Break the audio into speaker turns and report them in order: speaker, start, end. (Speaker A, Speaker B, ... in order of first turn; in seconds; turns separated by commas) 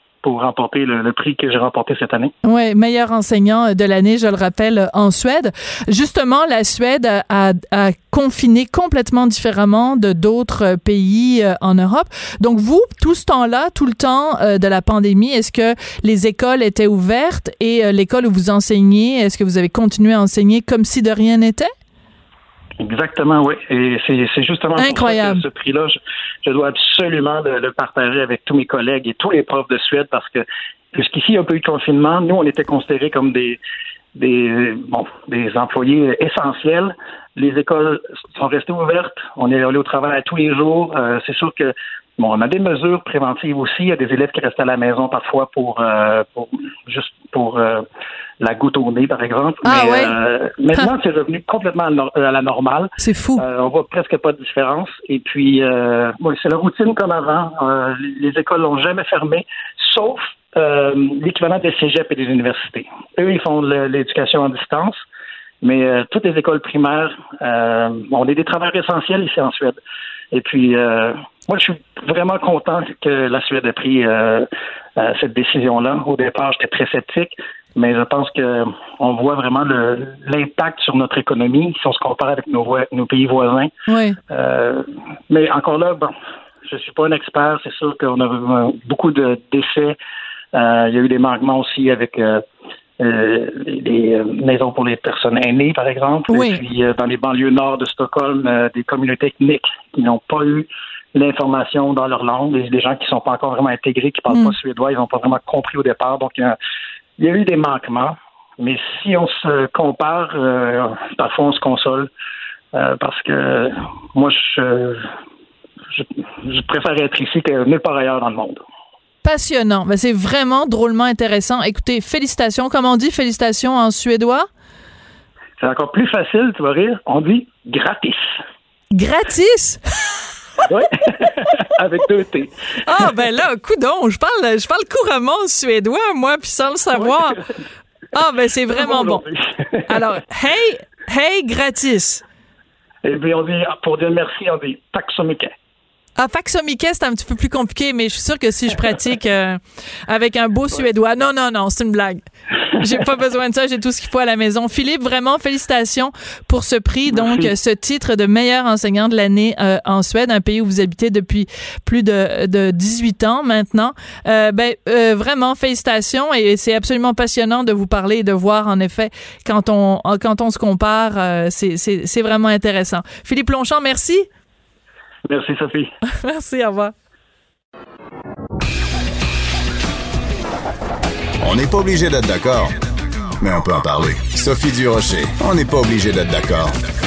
Speaker A: 0.2-2.3, Speaker B: 2.4-21.7, Speaker A: 22.8-33.6, Speaker B: 24.8-25.4, Speaker A: 34.1-47.9, Speaker A: 48.4-65.0, Speaker B: 49.6-50.1, Speaker B: 53.0-53.4, Speaker A: 65.6-69.8, Speaker A: 70.3-83.7, Speaker B: 83.9-84.2, Speaker A: 84.3-86.1, Speaker A: 86.7-90.0, Speaker A: 90.5-92.5, Speaker A: 93.0-106.6, Speaker B: 96.3-96.6, Speaker B: 104.3-104.5, Speaker A: 107.2-112.1, Speaker A: 112.7-115.1, Speaker A: 115.9-118.6, Speaker B: 119.2-124.5, Speaker A: 125.6-128.3, Speaker B: 128.9-129.8, Speaker A: 130.6-132.5, Speaker B: 132.8-137.4, Speaker A: 136.9-137.4, Speaker B: 138.1-139.2, Speaker A: 138.7-140.1, Speaker B: 139.9-142.2, Speaker A: 143.0-145.5, Speaker B: 146.2-152.2, Speaker B: 152.8-174.3, Speaker A: 157.1-157.5, Speaker A: 175.3-175.9, Speaker B: 176.2-176.9, Speaker C: 181.4-182.7, Speaker C: 183.4-186.8